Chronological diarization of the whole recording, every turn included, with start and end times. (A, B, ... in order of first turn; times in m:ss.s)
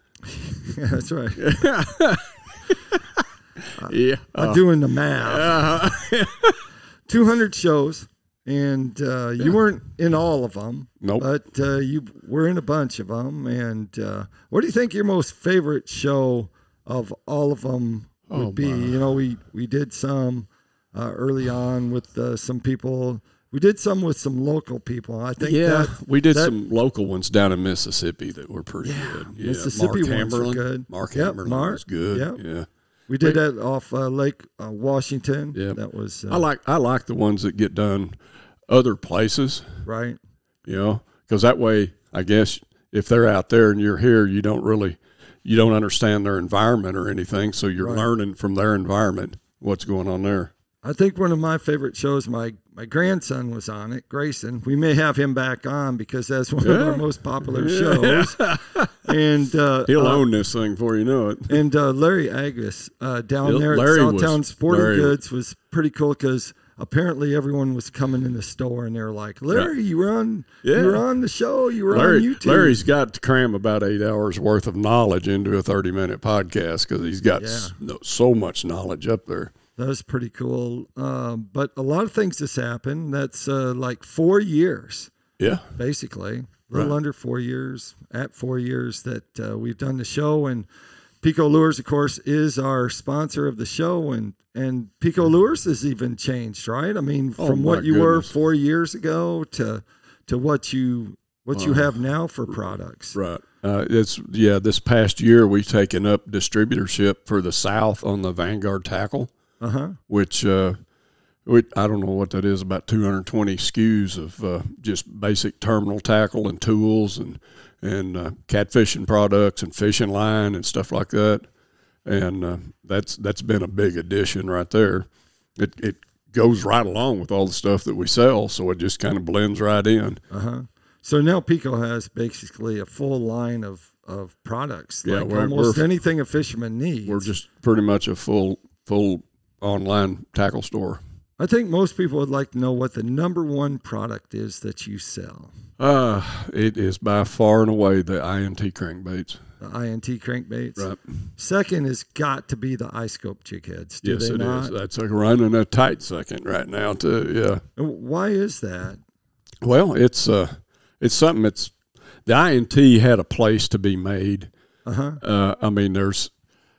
0:00.3-0:01.4 A
0:01.4-0:03.2 B
0:03.8-0:05.8 A
0:03.8-0:04.6 B
0:05.2-0:06.6 B
0:07.1-0:26.5 A
0:18.3-0:19.0 B
0:25.4-0:32.7 B
0:28.8-0:32.4 A
0:33.1-0:36.5 A
0:36.3-0:38.1 B
0:38.7-0:39.6 B
0:39.8-0:40.2 A
0:40.6-0:50.5 B
0:47.8-0:48.1 A
0:50.8-0:58.4 A
0:56.6-0:58.9 B
0:59.0-1:00.3 A
0:59.9-1:01.6 B
1:01.5-1:12.8 A
1:03.4-1:05.2 B
1:10.6-1:11.0 B
1:11.9-1:19.5 B
1:17.4-1:17.8 A
1:19.8-1:25.1 A
1:25.4-1:25.7 B
1:25.8-1:30.7 A
1:31.2-1:43.2 A
1:37.4-1:38.3 B
1:41.5-1:41.9 B
1:43.1-1:49.3 B
1:49.6-1:50.0 A
1:50.1-1:50.8 B
1:51.5-2:01.4 B
2:02.1-2:10.2 B
2:10.3-2:17.3 A
2:15.0-2:15.8 B
2:17.1-2:21.0 B
2:21.4-2:25.6 A
2:25.8-2:29.4 B
2:29.6-2:34.7 A
2:34.0-2:37.6 B
2:37.8-2:39.0 A
2:39.6-2:41.7 B
2:42.2-2:44.5 B
2:44.9-2:45.2 A
2:45.2-2:46.3 B